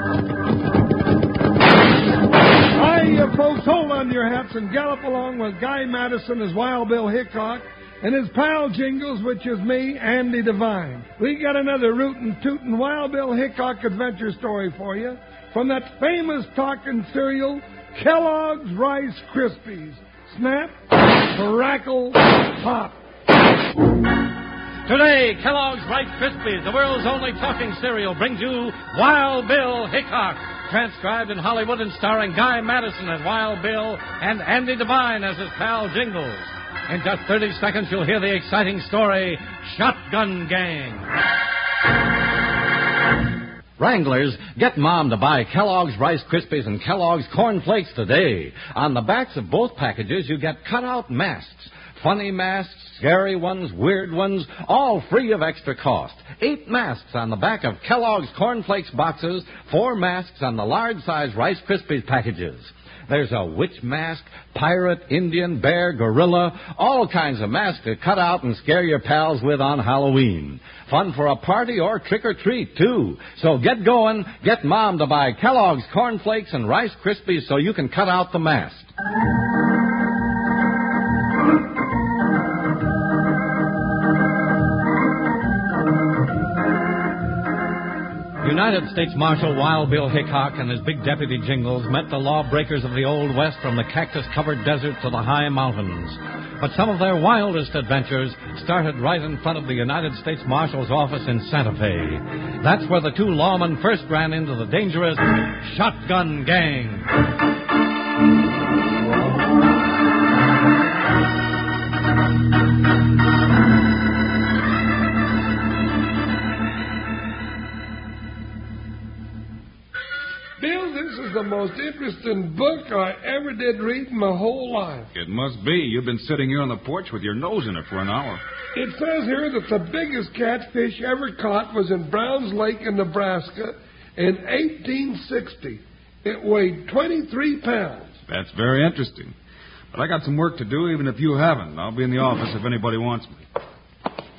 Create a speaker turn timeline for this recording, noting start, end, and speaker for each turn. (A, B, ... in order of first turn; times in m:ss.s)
0:02.7-0:20.8 A
0:21.3-0:23.0 A
0:24.8-0:41.1 B
0:43.8-1:18.9 B
1:28.4-1:47.1 B
2:00.6-2:05.1 A
2:05.1-2:08.4 C
2:08.7-2:18.1 A
2:18.3-2:19.3 C
2:19.9-2:23.4 C